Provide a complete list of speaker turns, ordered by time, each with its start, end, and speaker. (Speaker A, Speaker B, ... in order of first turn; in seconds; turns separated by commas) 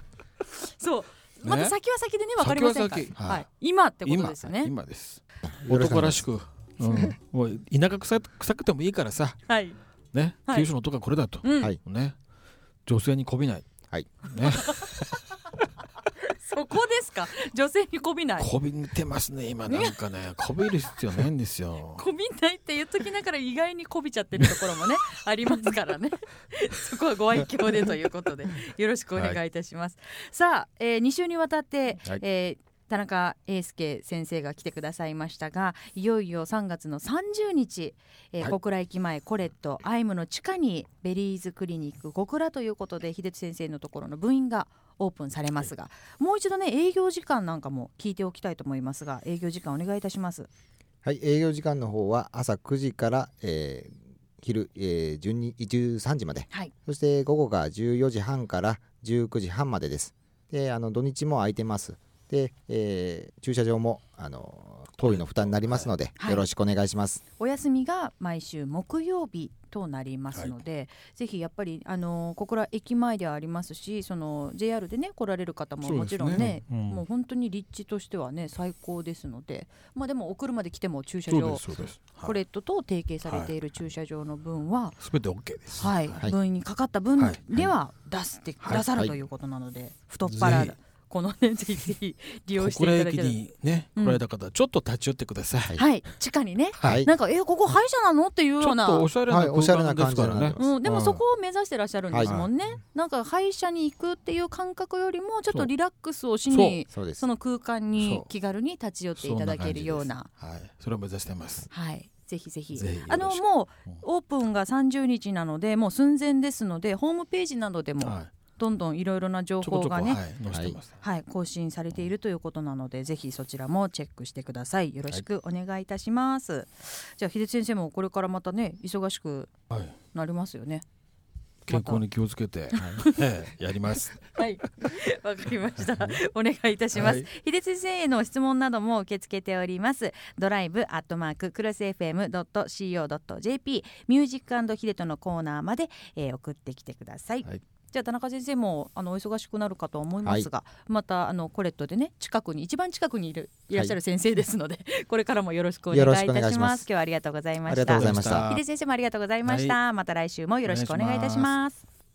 Speaker A: 0.5-4.7, Speaker B: 1.4-1.8, Speaker B: 2.4-3.5, Speaker B: 4.0-9.4, Speaker C: 5.4-6.2, Speaker C: 6.9-7.1, Speaker A: 9.5-9.8, Speaker B: 10.1-12.2, Speaker A: 11.4-11.7, Speaker B: 12.8-13.7, Speaker C: 13.9-14.2, Speaker B: 14.2-14.9, Speaker A: 14.5-14.9, Speaker A: 16.2-18.5, Speaker B: 18.4-22.0, Speaker A: 19.7-19.9, Speaker A: 21.9-50.5, Speaker B: 29.1-29.4, Speaker C: 51.0-67.2, Speaker B: 65.0-65.9, Speaker A: 66.2-66.5, Speaker A: 67.4-81.6, Speaker B: 75.8-77.0, Speaker B: 81.3-82.3, Speaker A: 82.2-85.0, Speaker B: 83.2-83.5, Speaker B: 85.0-86.2, Speaker A: 85.8-93.4, Speaker B: 88.6-88.9, Speaker C: 88.8-89.2, Speaker B: 90.2-90.8, Speaker B: 92.5-95.8, Speaker A: 95.8-99.1, Speaker B: 96.8-97.0, Speaker C: 96.8-97.1, Speaker B: 98.6-101.2, Speaker C: 99.3-100.8, Speaker A: 100.6-110.3, Speaker C: 102.1-102.4, Speaker B: 102.2-102.5, Speaker B: 106.5-106.8, Speaker C: 106.9-107.2, Speaker B: 108.0-108.3, Speaker B: 109.2-111.7, Speaker A: 111.7-120.2, Speaker B: 112.7-114.0, Speaker B: 118.0-118.3, Speaker B: 119.6-120.9, Speaker C: 120.5-120.8, Speaker A: 121.0-129.5, Speaker B: 129.7-129.9, Speaker A: 130.1-130.8, Speaker A: 131.7-132.0, Speaker B: 131.7-134.4, Speaker A: 132.7-133.2, Speaker C: 132.7-133.0, Speaker A: 134.3-161.8, Speaker B: 136.9-137.3, Speaker C: 155.9-156.9, Speaker C: 157.7-158.5, Speaker B: 157.9-158.6, Speaker B: 159.4-159.8, Speaker B: 160.6-161.6